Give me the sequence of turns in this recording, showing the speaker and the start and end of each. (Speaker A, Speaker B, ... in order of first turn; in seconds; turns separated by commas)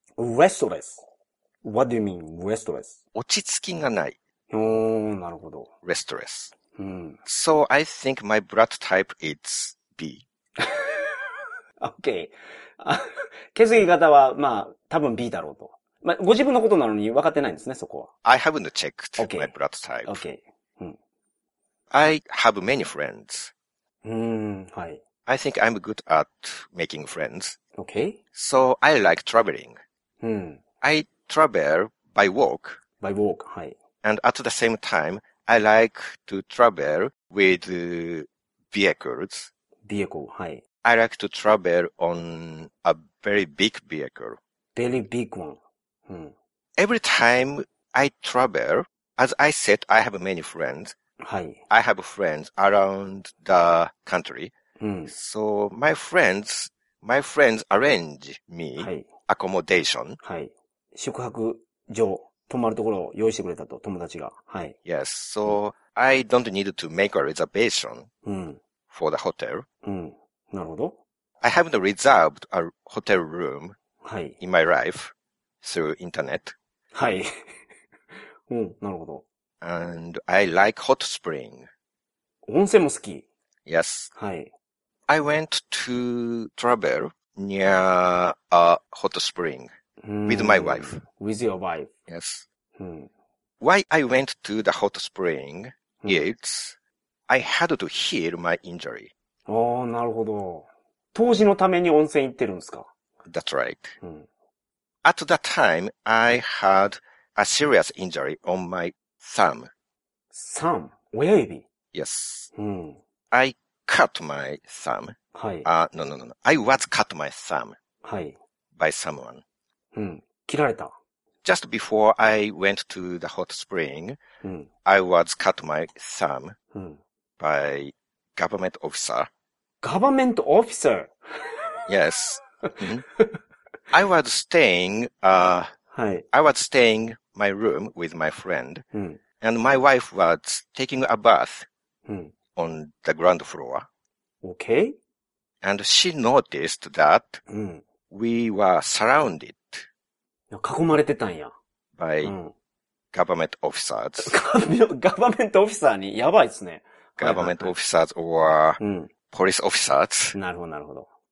Speaker A: 0.2-1.0, Speaker A: 1.6-3.0, Speaker B: 3.1-4.2, Speaker A: 4.5-5.7, Speaker B: 5.8-6.5, Speaker A: 6.8-7.2, Speaker B: 7.2-10.2, Speaker A: 10.6-11.1, Speaker A: 11.8-18.1, Speaker B: 18.2-20.2, Speaker A: 19.2-19.5, Speaker A: 20.0-21.0, Speaker B: 21.9-23.5, Speaker A: 24.0-25.0, Speaker B: 25.3-27.6, Speaker A: 27.8-28.2, Speaker B: 28.3-29.8, Speaker A: 30.2-30.6, Speaker B: 30.8-32.8, Speaker A: 33.0-33.8, Speaker B: 34.0-39.5, Speaker A: 39.8-40.6, Speaker B: 40.8-44.4, Speaker A: 44.7-46.3, Speaker B: 46.8-50.9, Speaker A: 51.2-51.6, Speaker B: 51.7-54.5, Speaker A: 54.8-55.1, Speaker B: 55.1-60.2, Speaker A: 58.8-59.1, Speaker A: 60.2-64.8, Speaker B: 64.8-68.1, Speaker A: 68.2-68.6, Speaker B: 68.9-69.6, Speaker A: 69.8-71.0, Speaker B: 71.4-73.8, Speaker A: 74.0-74.4, Speaker B: 74.4-76.5, Speaker A: 76.9-77.4, Speaker A: 78.5-79.2, Speaker B: 79.6-81.7, Speaker A: 82.5-83.2, Speaker B: 83.7-84.1, Speaker A: 84.2-84.5, Speaker B: 85.1-89.7, Speaker A: 90.0-91.9, Speaker B: 90.3-91.0, Speaker B: 92.1-92.4, Speaker A: 92.8-93.1, Speaker B: 93.6-96.8, Speaker B: 97.3-99.1, Speaker A: 99.5-102.9, Speaker B: 103.2-104.0, Speaker B: 105.0-109.7, Speaker A: 110.3-111.6, Speaker B: 111.9-112.5, Speaker A: 112.5-113.0, Speaker B: 113.3-117.8, Speaker A: 115.3-115.7, Speaker A: 118.0-118.3, Speaker B: 118.8-119.4, Speaker A: 119.9-120.9, Speaker B: 121.4-124.2, Speaker A: 124.4-124.7, Speaker B: 124.8-126.5, Speaker A: 126.7-127.0, Speaker B: 127.4-129.3, Speaker A: 129.8-131.1, Speaker B: 131.9-133.1, Speaker B: 133.9-135.7, Speaker A: 135.9-136.2, Speaker B: 136.3-138.8, Speaker A: 138.9-139.2, Speaker B: 139.4-141.7, Speaker A: 142.1-142.3, Speaker B: 142.6-143.9, Speaker A: 144.4-144.9, Speaker B: 145.6-147.4, Speaker A: 147.5-147.8, Speaker B: 148.1-149.8, Speaker A: 150.5-151.5, Speaker B: 151.9-152.3, Speaker A: 152.2-152.5, Speaker B: 153.1-154.4, Speaker A: 154.2-157.7, Speaker B: 157.2-160.3, Speaker A: 158.8-159.1, Speaker A: 160.3-161.1